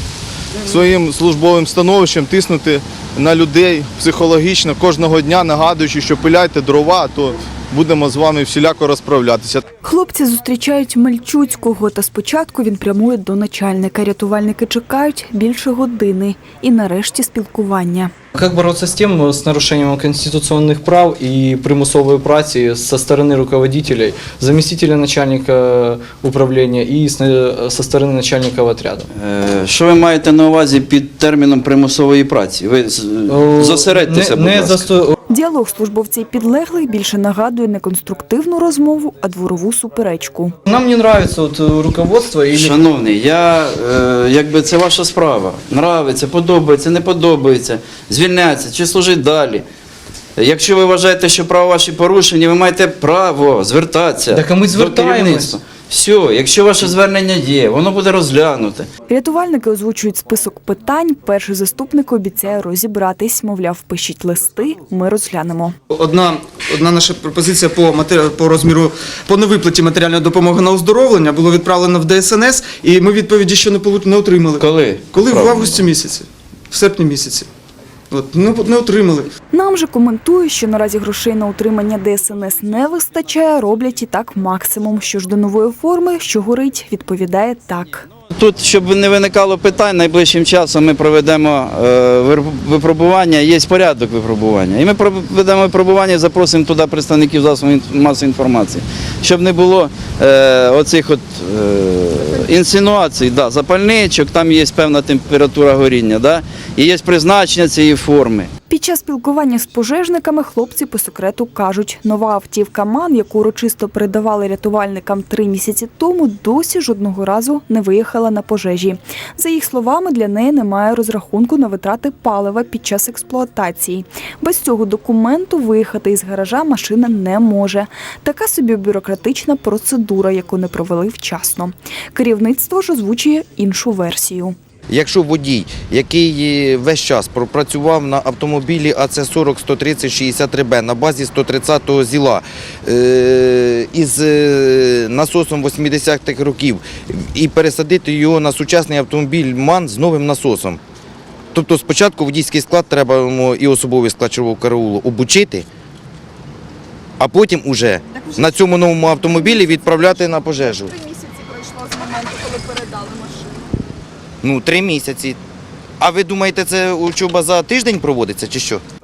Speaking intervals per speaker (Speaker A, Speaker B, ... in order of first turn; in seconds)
Speaker A: 0.6-9.7
Speaker B: 9.8-18.1, 35.3-40.5, 59.1-65.7, 79.5-88.0, 108.7-134.5
Speaker C: 18.3-29.1, 33.3-35.1, 40.6-42.8, 54.3-55.5
Speaker D: 29.1-34.9, 42.5-49.6, 50.4-58.9, 74.6-75.8, 88.3-108.5
Speaker E: 65.9-77.5, 78.1-79.3
Speaker F: 134.9-150.8, 151.5-155.7, 157.2-161.0, 164.4-165.4, 166.0-168.8
Speaker G: 161.2-163.4